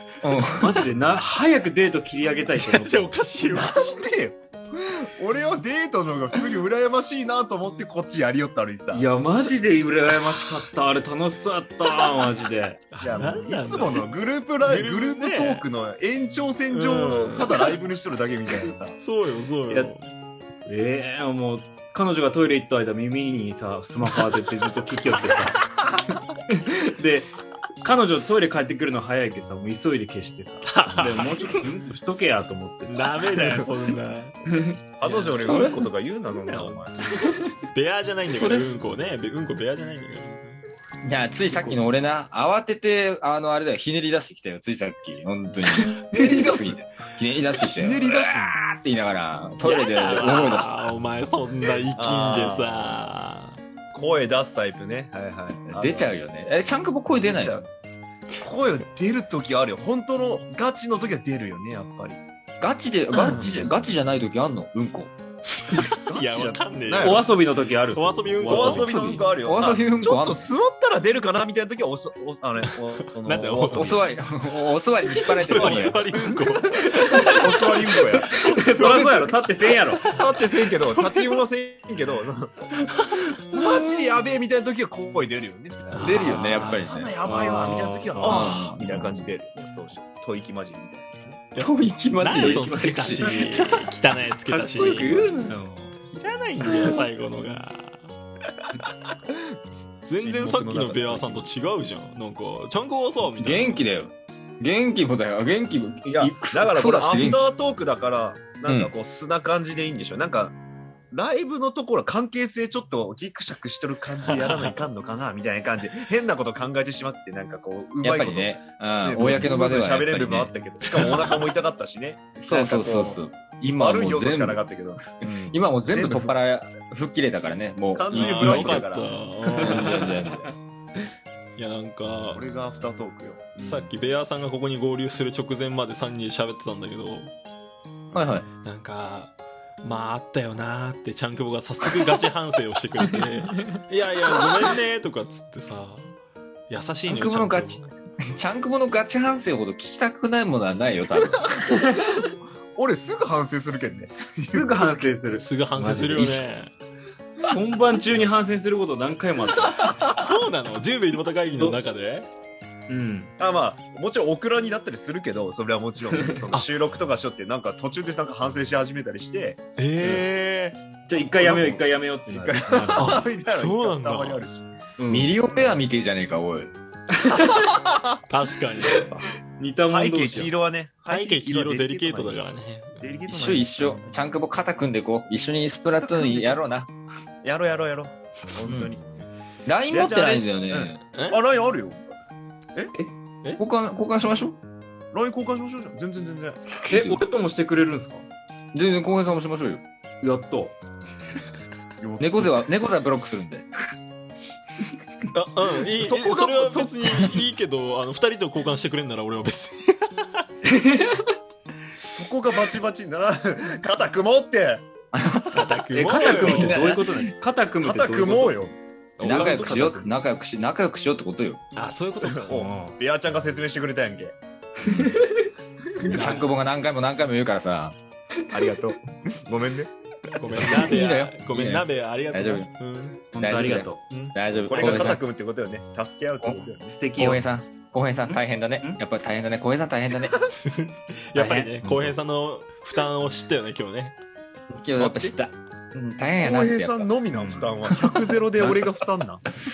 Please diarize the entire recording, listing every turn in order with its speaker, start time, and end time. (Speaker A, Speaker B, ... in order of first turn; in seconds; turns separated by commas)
Speaker A: 0.2-0.8, Speaker B: 0.4-3.1, Speaker C: 2.5-4.0, Speaker D: 3.5-9.1, Speaker B: 8.9-12.8, Speaker C: 12.9-15.7, Speaker D: 13.0-19.0, Speaker C: 16.7-17.5, Speaker C: 19.0-20.1, Speaker B: 20.7-25.8, Speaker B: 26.5-33.1, Speaker C: 30.7-31.7, Speaker C: 32.9-34.4, Speaker D: 33.3-33.8, Speaker B: 34.5-34.8, Speaker D: 35.0-37.1, Speaker C: 35.0-35.7, Speaker B: 35.5-35.9, Speaker C: 36.4-36.9, Speaker C: 37.7-40.6, Speaker B: 38.4-38.8, Speaker A: 41.0-50.9, Speaker B: 41.5-41.8, Speaker D: 45.9-46.8, Speaker D: 47.6-48.6, Speaker C: 49.6-53.6, Speaker D: 51.9-53.0, Speaker D: 53.9-56.1, Speaker A: 55.6-57.6, Speaker D: 57.3-57.7, Speaker D: 58.4-62.2, Speaker A: 62.6-65.1, Speaker D: 63.1-63.8, Speaker C: 65.5-67.3, Speaker D: 66.1-67.3, Speaker B: 67.0-68.8, Speaker C: 67.9-68.9, Speaker D: 68.5-74.0, Speaker A: 68.7-70.4, Speaker C: 73.2-74.2, Speaker A: 73.7-76.0, Speaker C: 75.3-77.7, Speaker D: 75.5-79.4, Speaker B: 77.1-77.4, Speaker B: 78.3-80.0, Speaker C: 78.4-78.9, Speaker C: 80.0-81.4, Speaker D: 80.0-82.6, Speaker D: 83.5-91.4, Speaker C: 85.9-86.9, Speaker A: 86.0-87.2, Speaker B: 87.3-88.5, Speaker A: 88.2-89.1, Speaker C: 88.4-88.8, Speaker C: 91.5-95.3, Speaker A: 91.6-93.8, Speaker B: 92.4-93.8, Speaker B: 94.5-96.0, Speaker C: 96.1-98.1, Speaker A: 96.7-97.0, Speaker C: 100.1-103.8, Speaker D: 100.2-101.5, Speaker A: 103.4-107.4, Speaker D: 106.1-110.5, Speaker A: 108.7-108.9, Speaker D: 111.1-123.2, Speaker C: 114.2-114.8, Speaker A: 118.0-120.5, Speaker C: 120.9-121.4, Speaker A: 122.4-124.6, Speaker D: 123.8-126.4, Speaker A: 125.5-128.8, Speaker D: 128.0-129.1, Speaker C: 128.1-130.4, Speaker A: 129.5-130.4, Speaker B: 129.6-130.2, Speaker C: 131.6-132.4, Speaker D: 132.3-133.9, Speaker C: 133.6-137.3, Speaker D: 138.1-138.4, Speaker A: 138.1-138.5, Speaker C: 138.6-146.2, Speaker B: 143.4-143.8, Speaker C: 146.7-147.9, Speaker A: 147.1-151.5, Speaker D: 151.5-155.0, Speaker B: 151.6-152.3, Speaker B: 154.4-156.4, Speaker C: 155.3-156.7, Speaker B: 157.5-159.8, Speaker D: 159.7-160.1, Speaker C: 160.1-162.3, Speaker B: 162.9-163.3, Speaker D: 163.4-170.1, Speaker B: 166.2-166.5, Speaker C: 169.8-170.8, Speaker B: 171.1-173.2, Speaker D: 171.2-174.7, Speaker C: 173.0-174.4, Speaker B: 175.0-175.4, Speaker A: 175.1-176.7, Speaker B: 177.2-177.7, Speaker D: 177.7-178.1, Speaker C: 178.3-179.1, Speaker B: 178.9-180.5, Speaker D: 179.9-182.4, Speaker C: 181.1-183.1, Speaker D: 183.0-184.0, Speaker A: 183.3-186.9, Speaker D: 186.0-186.6, Speaker D: 187.4-189.1, Speaker A: 188.7-188.9, Speaker A: 189.7-191.0, Speaker D: 189.9-192.2, Speaker C: 191.1-191.4, Speaker A: 193.6-194.6, Speaker D: 195.1-196.7, Speaker A: 196.8-197.2, Speaker B: 196.9-198.2, Speaker A: 198.7-199.8, Speaker B: 200.2-200.8, Speaker D: 202.0-202.7, Speaker A: 202.2-203.7, Speaker C: 205.3-210.4, Speaker D: 206.0-207.1, Speaker B: 210.7-211.3, Speaker D: 212.1-214.8, Speaker A: 215.1-217.3, Speaker C: 215.5-216.9, Speaker B: 215.9-218.7, Speaker D: 217.8-218.7, Speaker C: 219.2-220.1, Speaker A: 219.2-221.6, Speaker D: 219.2-220.1, Speaker C: 221.8-222.6, Speaker D: 222.2-224.3, Speaker B: 222.5-223.0, Speaker B: 224.8-225.5, Speaker D: 226.0-226.4, Speaker C: 226.0-226.6, Speaker A: 226.0-227.9, Speaker D: 228.5-229.9, Speaker C: 230.3-233.4, Speaker A: 230.5-232.7, Speaker B: 233.3-234.0, Speaker A: 233.4-235.2, Speaker C: 234.1-235.1, Speaker D: 234.7-237.0, Speaker B: 236.9-237.4, Speaker A: 237.2-240.4, Speaker B: 238.2-239.0, Speaker C: 240.6-244.2, Speaker B: 241.3-241.8, Speaker A: 244.7-247.1, Speaker D: 245.0-245.3, Speaker D: 246.4-249.4, Speaker B: 247.3-247.9, Speaker B: 248.6-249.0